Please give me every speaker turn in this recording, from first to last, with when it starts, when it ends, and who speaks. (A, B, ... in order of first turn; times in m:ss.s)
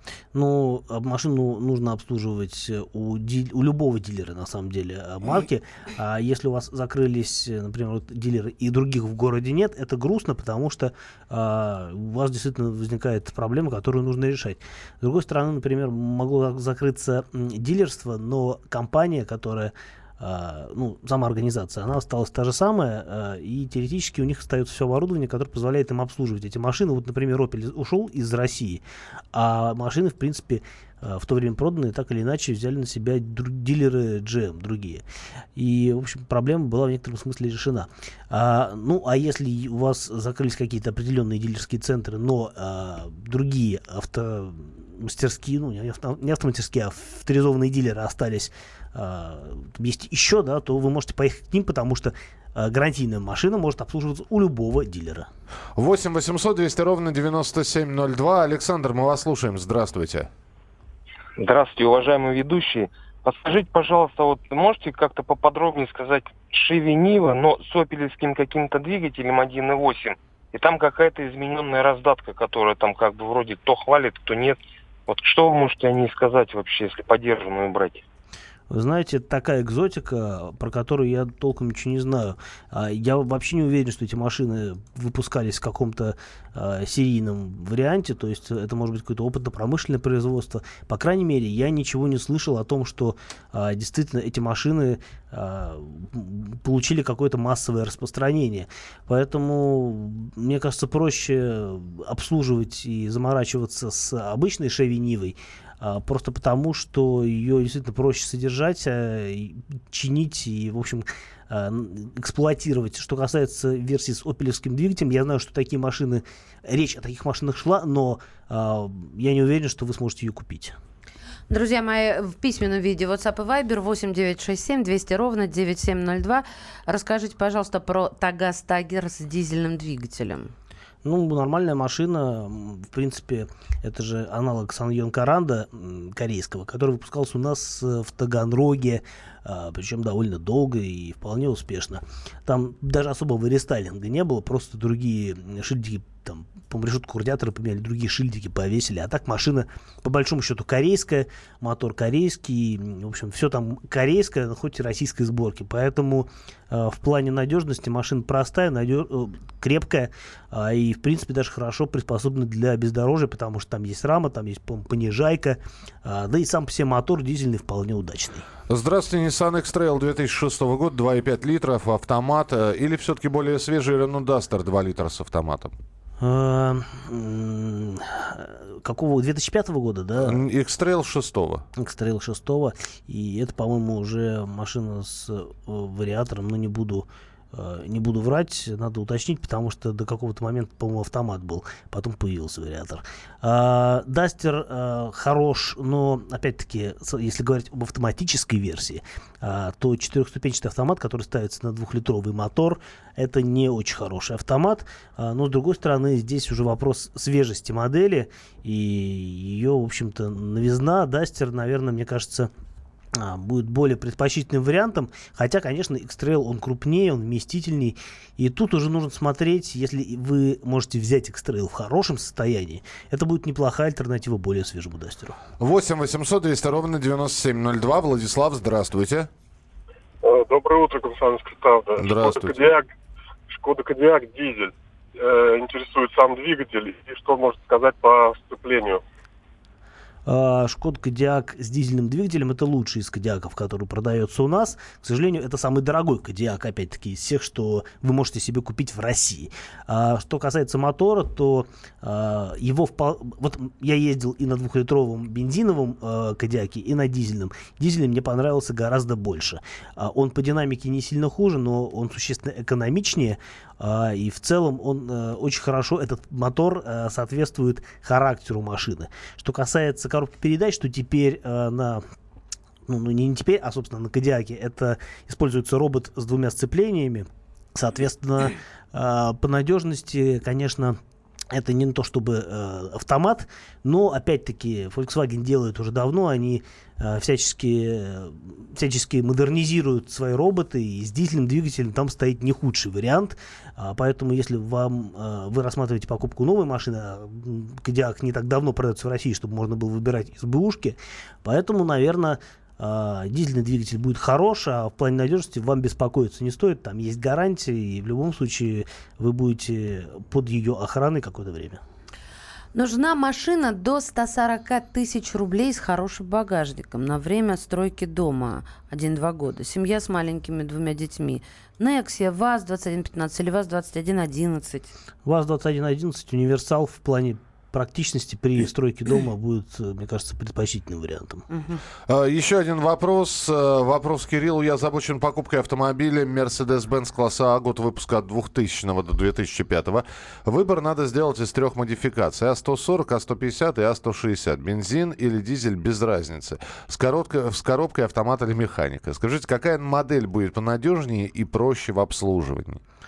0:00.3-0:35.0 A
0:35.6-0:55.3 A
0:55.8-1:00.3 B
1:01.4-1:18.0 C
1:18.7-2:00.8 A
2:01.5-2:10.5 D
2:11.0-2:48.5 A
2:48.7-2:55.7 B
2:56.2-3:00.4 A
3:00.2-3:01.6 B
3:01.8-3:32.5 A
3:33.1-3:45.4 A
3:45.6-3:49.3 B
3:50.2-3:52.9 E
3:52.0-3:52.6 B
3:53.5-3:59.0 E
4:00.2-4:32.0 A
4:32.9-4:41.0 A
4:41.5-5:11.8 A
5:12.7-5:24.9 D
5:25.2-5:31.4 A
5:31.5-5:31.8 D
5:32.1-5:52.8 B